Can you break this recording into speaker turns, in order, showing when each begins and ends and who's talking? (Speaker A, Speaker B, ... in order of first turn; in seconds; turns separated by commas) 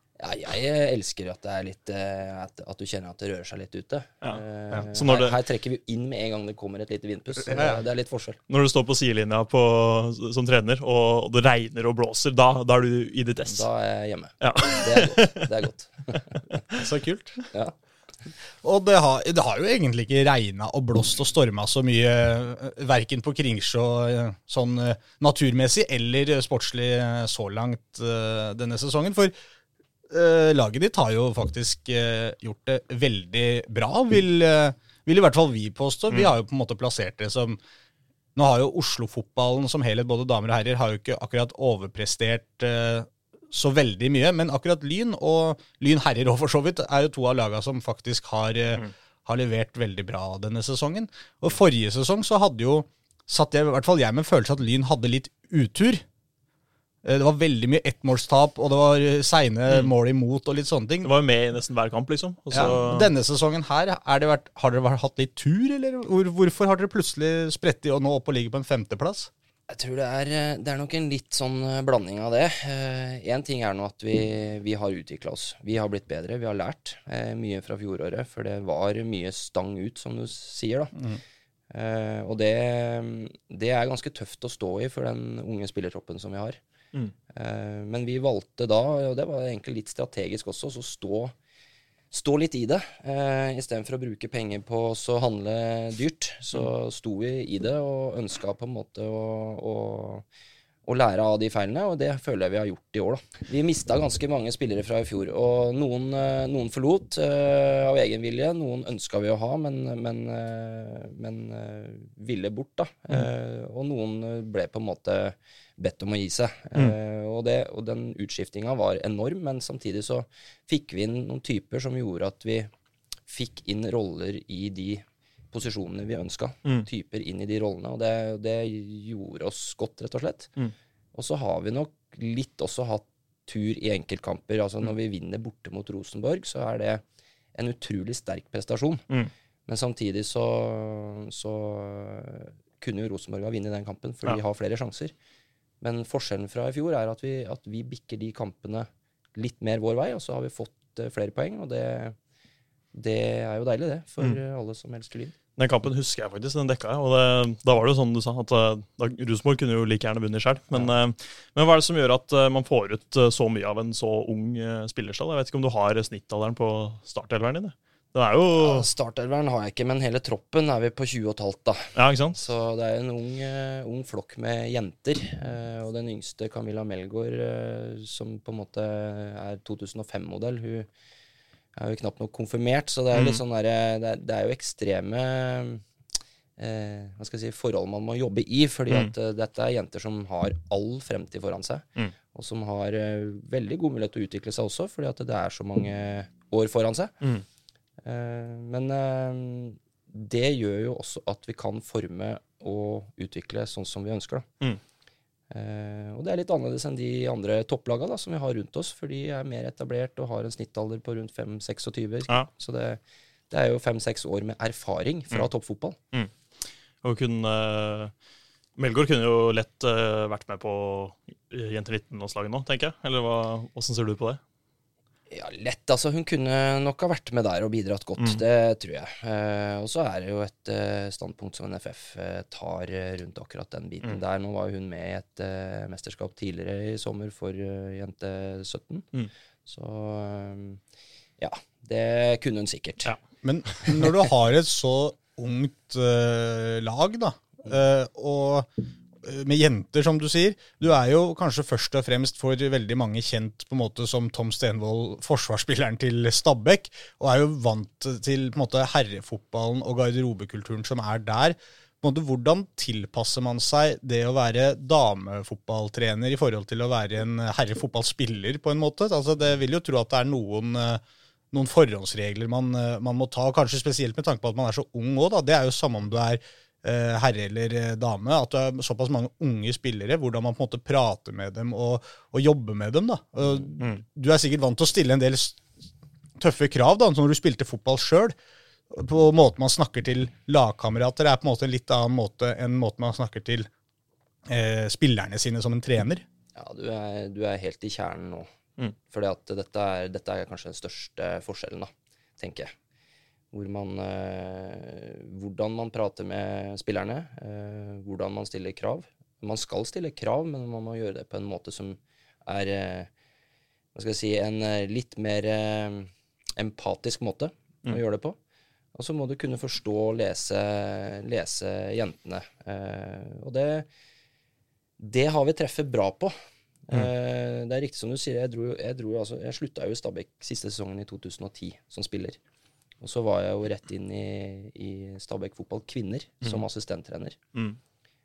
Speaker A: 0.2-8.4, Speaker B: 4.9-5.4, Speaker C: 7.5-7.8, Speaker B: 8.5-13.7, Speaker A: 13.5-16.3, Speaker B: 14.4-15.5, Speaker C: 16.8-17.4, Speaker C: 18.6-29.3, Speaker C: 30.1-37.6, Speaker C: 38.4-56.0, Speaker C: 57.0-61.1, Speaker B: 61.0-63.1, Speaker C: 62.5-69.3, Speaker A: 69.7-80.9, Speaker C: 81.0-81.2, Speaker A: 81.7-86.6, Speaker A: 87.3-91.3, Speaker A: 92.1-100.2, Speaker A: 100.9-122.7, Speaker A: 123.3-130.5, Speaker A: 131.1-137.0, Speaker A: 137.6-139.1, Speaker A: 139.7-145.1, Speaker A: 145.8-152.2, Speaker A: 152.9-155.3, Speaker B: 155.6-168.9, Speaker A: 168.6-180.9, Speaker B: 171.9-172.4, Speaker A: 181.8-185.8, Speaker B: 183.1-183.4, Speaker A: 186.6-197.1, Speaker A: 198.1-204.5, Speaker A: 205.5-216.0, Speaker B: 217.0-218.1, Speaker B: 218.8-224.4, Speaker A: 225.3-239.1, Speaker A: 239.7-240.8, Speaker A: 241.4-243.2, Speaker C: 243.4-248.7, Speaker C: 249.2-271.0, Speaker C: 271.5-285.6, Speaker C: 286.4-288.4, Speaker C: 288.9-293.7, Speaker C: 294.5-296.2, Speaker A: 296.6-298.5, Speaker A: 299.1-302.7, Speaker A: 303.5-313.1, Speaker A: 313.9-318.4, Speaker A: 318.9-323.9, Speaker A: 325.0-326.4, Speaker A: 326.9-332.4, Speaker A: 333.0-337.4